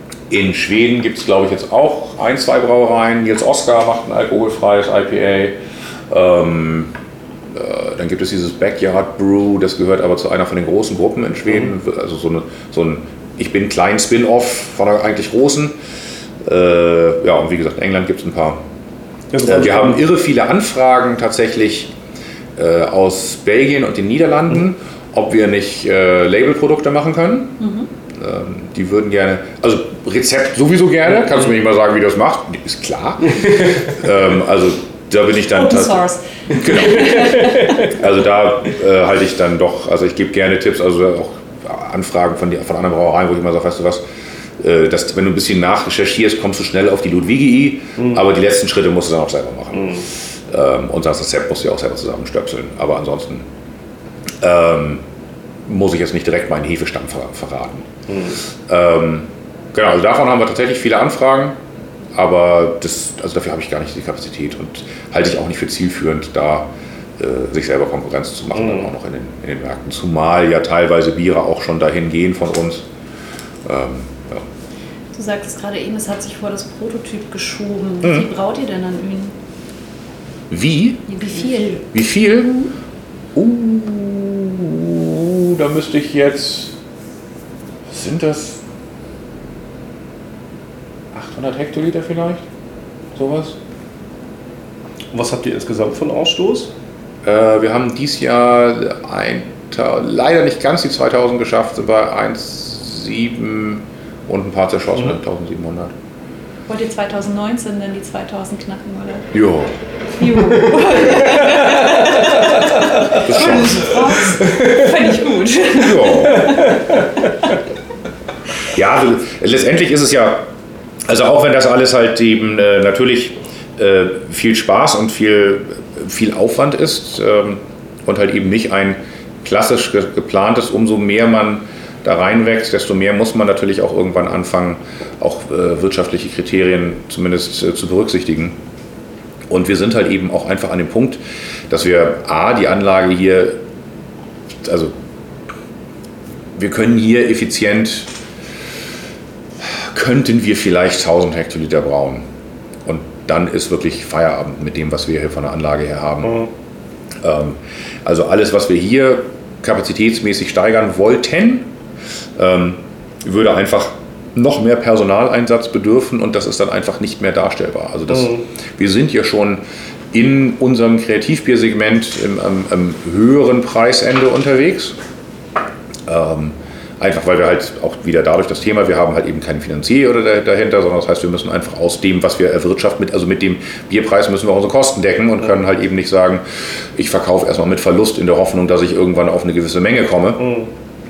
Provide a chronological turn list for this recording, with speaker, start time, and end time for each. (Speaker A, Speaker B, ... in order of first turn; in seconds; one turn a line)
Speaker A: 0.3-5.6
Speaker A: 6.1-6.9
Speaker A: 7.5-15.8
Speaker A: 16.4-18.6
Speaker B: 19.3-20.0
Speaker A: 19.4-21.9
Speaker A: 22.6-44.0
Speaker C: 27.6-27.9
Speaker C: 35.5-37.9
Speaker B: 36.5-37.9
Speaker A: 44.6-53.5
Speaker B: 49.7-50.1
Speaker A: 54.4-55.0
Speaker A: 55.6-57.9
Speaker B: 58.1-58.4
Speaker A: 58.7-61.6
Speaker A: 62.1-72.8
Speaker B: 68.5-68.9
Speaker A: 73.6-74.5
Speaker C: 75.1-79.3
Speaker A: 78.0-78.3
Speaker A: 80.5-82.5
Speaker C: 81.1-81.9
Speaker A: 83.3-86.8
Speaker A: 87.9-88.6
Speaker A: 91.1-92.4
Speaker A: 93.1-93.6
Speaker B: 95.1-96.7
Speaker A: 97.2-105.9
Speaker C: 106.7-109.3
Speaker A: 109.3-109.8
Speaker C: 110.1-116.8
Speaker A: 110.9-111.5
Speaker B: 112.3-113.2
Speaker A: 113.1-114.2
Speaker B: 114.3-114.8
Speaker A: 115.7-116.6
Speaker B: 116.1-117.1
Speaker A: 118.7-120.4
Speaker A: 121.0-138.6
Speaker A: 139.5-143.6
Speaker A: 144.6-144.9
Speaker A: 146.5-148.1
Speaker A: 149.6-152.2
Speaker A: 152.8-156.4
Speaker B: 156.2-156.5
Speaker A: 157.2-161.7
Speaker A: 162.3-174.9
Speaker B: 168.1-168.4
Speaker A: 176.1-190.5
Speaker B: 190.4-190.7